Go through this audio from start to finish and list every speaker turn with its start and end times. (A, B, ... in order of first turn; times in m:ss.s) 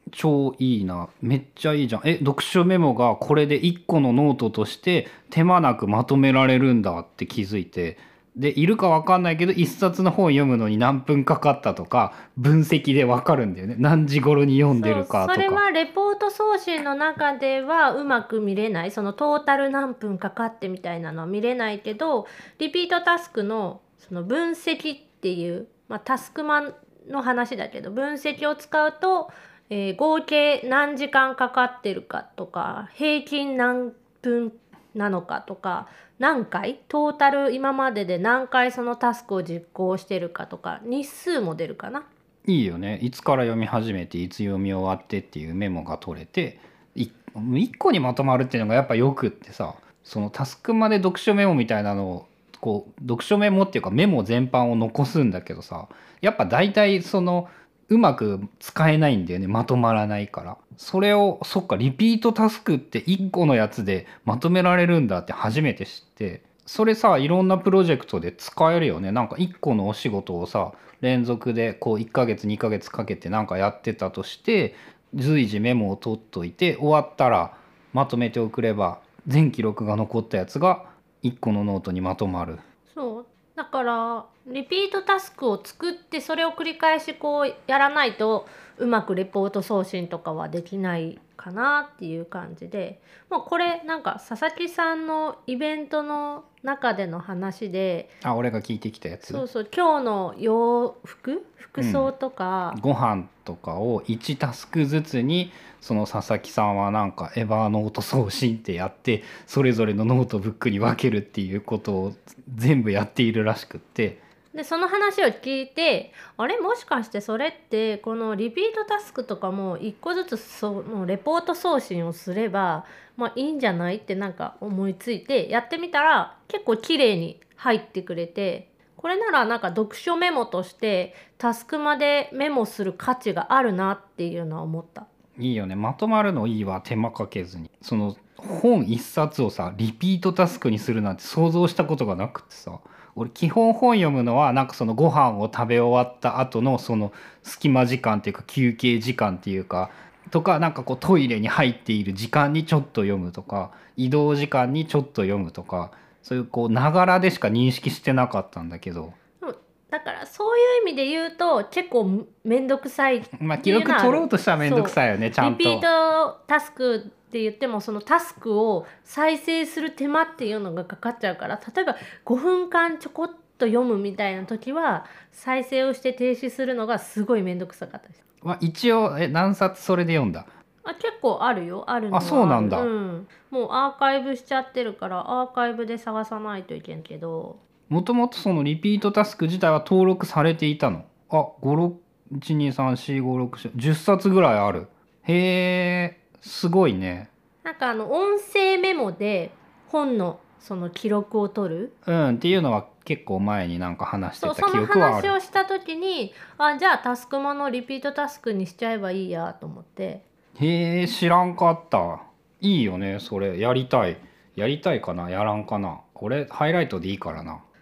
0:00.1-0:15.6 A
0:14.7-0:42.0 B
0:42.4-1:22.6 A
1:22.9-1:38.1 B
1:38.2-1:39.4 A
1:39.2-1:42.8 B
1:41.8-1:42.1 A
1:42.7-1:54.2 A
1:54.5-2:15.1 B
2:15.4-2:39.2 A
2:39.4-2:58.2 B
2:43.3-2:45.8 A
2:58.4-3:00.5 A
3:00.8-3:07.6 B
3:02.1-3:02.9 A
3:07.9-3:17.3 A
3:17.6-3:21.9 B
3:22.0-3:25.3 A
3:24.4-3:30.2 B
3:30.6-3:37.6 A